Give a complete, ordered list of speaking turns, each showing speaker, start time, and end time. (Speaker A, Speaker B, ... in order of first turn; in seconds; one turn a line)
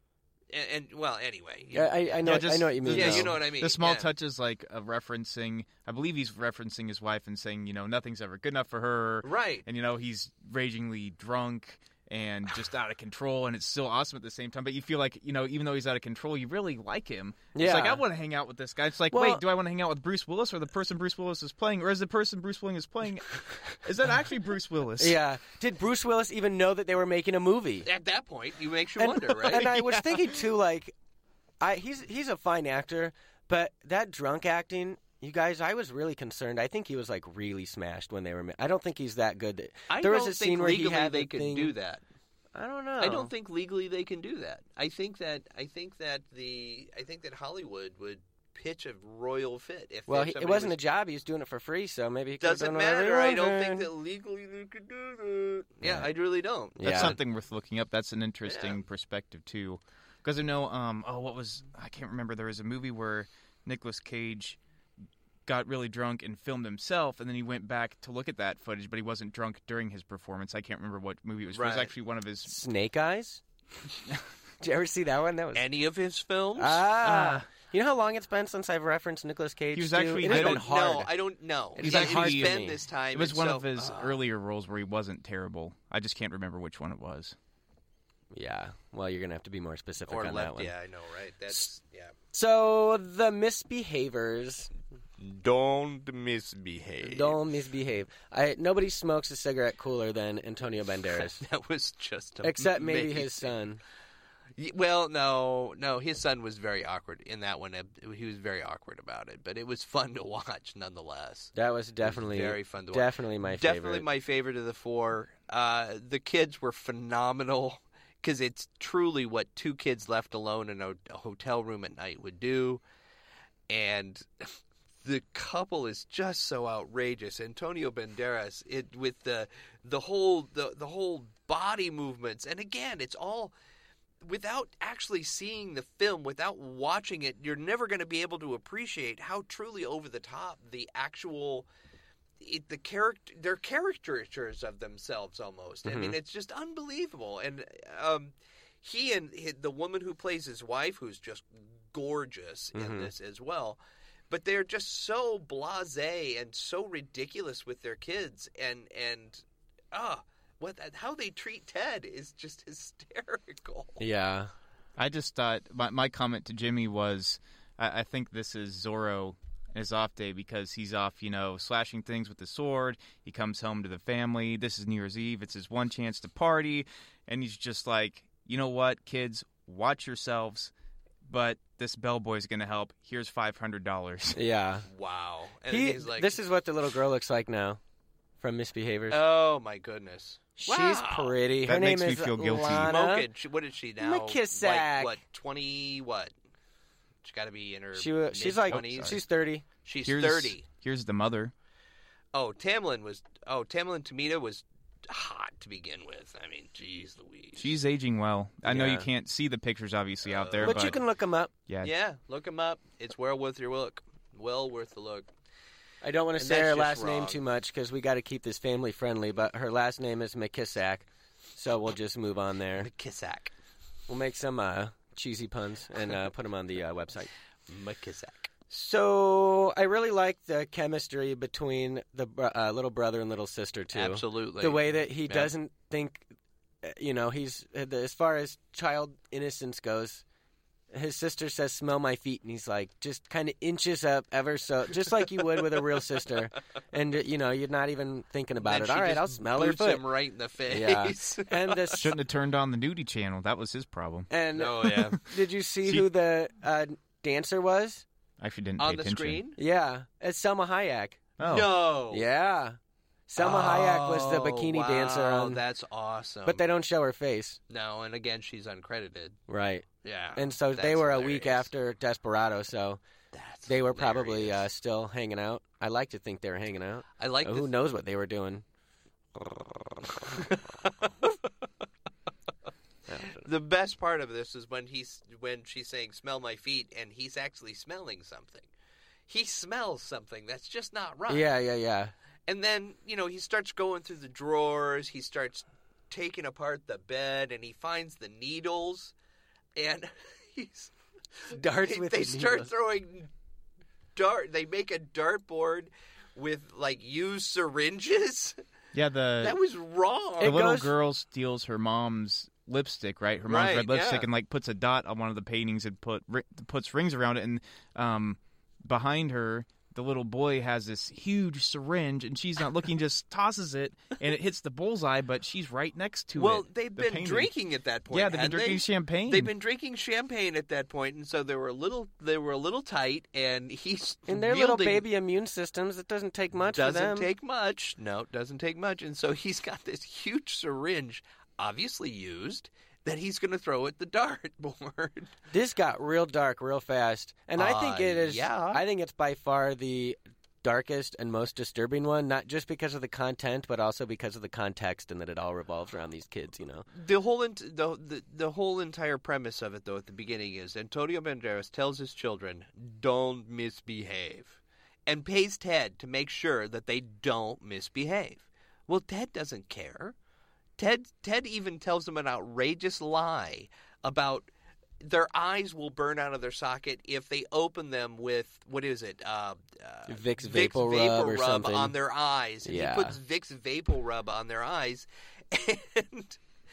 Speaker A: 0.5-4.1
Speaker B: 1.7-3.4
Speaker C: 2.2-25.2
Speaker A: 9.2-9.7
Speaker B: 17.5-18.0
Speaker B: 19.1-19.4
Speaker B: 25.0-27.9
Speaker A: 27.9-30.3
Speaker B: 29.0-30.9
Speaker B: 31.6-41.7
Speaker A: 39.9-42.0
Speaker B: 42.6-43.3
Speaker A: 43.0-50.8
Speaker B: 50.1-53.9
Speaker A: 52.4-57.2
Speaker B: 56.8-57.1
Speaker C: 56.8-64.6
Speaker A: 58.4-58.8
Speaker C: 65.5-72.5
Speaker A: 71.5-71.9
Speaker B: 72.5-73.4
Speaker B: 74.6-75.7
Speaker A: 75.5-77.4
Speaker B: 76.6-81.1
Speaker C: 79.7-80.7
Speaker A: 80.2-84.2
Speaker B: 81.8-82.8
Speaker C: 81.8-82.6
Speaker C: 83.1-87.4
Speaker B: 88.3-90.7
Speaker A: 90.1-92.1
Speaker B: 92.3-94.7
Speaker A: 95.2-97.4
Speaker B: 97.0-101.4
Speaker A: 101.1-103.5
Speaker B: 102.4-103.8
Speaker A: 104.6-111.5
Speaker B: 111.5-114.0
Speaker A: 112.0-122.8
Speaker A: 123.7-133.5
Speaker A: 134.2-141.7
Speaker A: 142.4-153.8
Speaker B: 145.9-146.2
Speaker B: 152.7-153.1
Speaker A: 154.3-164.0
Speaker B: 164.0-164.5
Speaker C: 165.0-180.7
Speaker C: 181.2-184.4
Speaker B: 184.3-184.9
Speaker A: 184.9-186.4
Speaker B: 185.7-187.8
Speaker B: 188.4-189.2
Speaker A: 189.1-191.3
Speaker B: 190.6-193.3
Speaker C: 191.6-193.0
Speaker A: 192.6-196.3
Speaker B: 194.0-195.2
Speaker A: 197.2-199.2
Speaker B: 197.9-199.6
Speaker C: 198.7-199.2
Speaker A: 199.8-200.6
Speaker C: 200.0-201.5
Speaker A: 202.3-207.8
Speaker C: 207.6-211.0
Speaker B: 208.6-209.1
Speaker A: 210.3-211.0
Speaker B: 210.6-211.5
Speaker A: 211.8-215.3
Speaker B: 216.0-222.9
Speaker A: 216.4-217.4
Speaker A: 222.8-223.5
Speaker B: 224.1-227.3
Speaker A: 227.7-228.5
Speaker B: 228.7-236.3
Speaker A: 233.9-235.5
Speaker B: 236.8-240.2
Speaker B: 240.9-250.0
Speaker A: 248.6-252.1
Speaker B: 250.7-252.1
Speaker C: 252.0-254.3
Speaker B: 254.3-258.1
Speaker A: 254.5-255.2
Speaker C: 254.9-255.1
Speaker C: 258.4-259.4
Speaker A: 258.8-259.6
Speaker B: 259.6-261.2
Speaker C: 261.4-261.8
Speaker A: 261.4-262.2
Speaker B: 262.1-262.8
Speaker B: 263.3-265.6
Speaker A: 263.4-266.6
Speaker B: 266.4-267.6
Speaker A: 267.7-269.4
Speaker B: 269.5-269.9
Speaker A: 270.0-271.7
Speaker B: 270.4-273.0
Speaker A: 273.3-274.6
Speaker B: 273.7-278.6
Speaker A: 277.2-277.7
Speaker A: 280.0-281.4
Speaker B: 283.1-283.4
Speaker A: 283.2-288.7
Speaker A: 289.3-291.5
Speaker B: 291.3-292.1
Speaker A: 292.5-299.1
Speaker A: 299.8-300.9
Speaker A: 301.4-303.3
Speaker B: 301.5-302.7
Speaker A: 304.1-308.6
Speaker C: 308.9-309.6
Speaker A: 309.4-310.6
Speaker B: 310.4-310.9
Speaker C: 310.4-327.5
Speaker A: 313.4-314.3
Speaker A: 326.4-335.0
Speaker C: 328.1-329.5
Speaker B: 334.3-337.3
Speaker A: 336.7-345.3
Speaker B: 345.5-356.9
Speaker A: 347.6-348.8
Speaker A: 356.9-370.1
Speaker A: 370.8-374.5
Speaker A: 375.0-386.4
Speaker B: 380.1-381.9
Speaker B: 382.6-383.1